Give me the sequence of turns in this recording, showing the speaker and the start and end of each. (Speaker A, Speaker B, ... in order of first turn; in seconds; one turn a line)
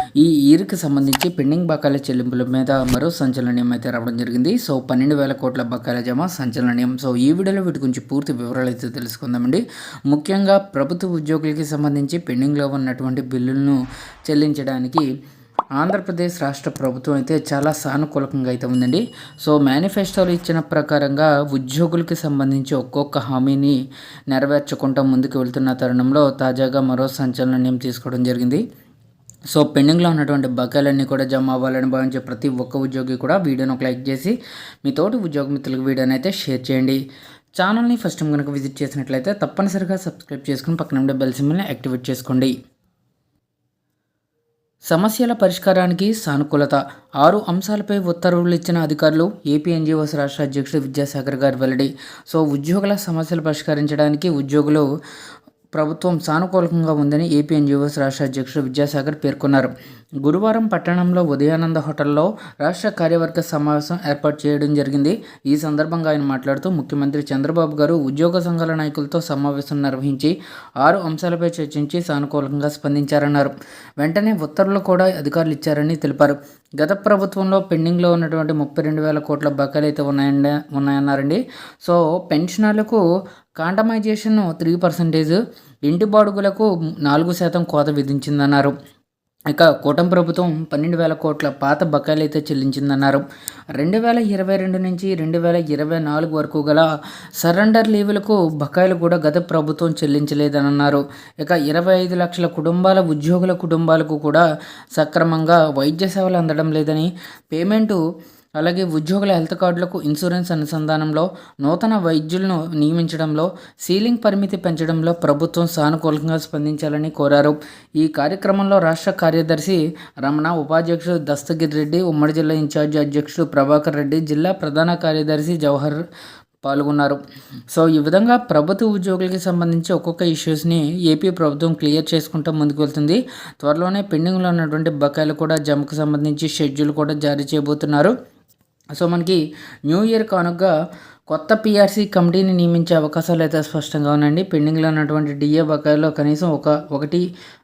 Speaker A: 0.2-15.1
Speaker A: 15.8-23.8
Speaker A: 24.3-28.6
Speaker A: 29.5-37.0
Speaker A: 37.6-42.5
Speaker A: 44.9-54.9
Speaker A: 55.7-83.0
Speaker A: 83.6-88.7
Speaker A: 89.5-93.2
Speaker A: 93.8-96.9
Speaker A: 97.4-104.4
Speaker A: 105.0-108.0
Speaker A: 108.6-126.0
Speaker A: 126.6-127.2
Speaker A: 127.7-138.1
Speaker A: 138.9-140.7
Speaker A: 141.3-147.2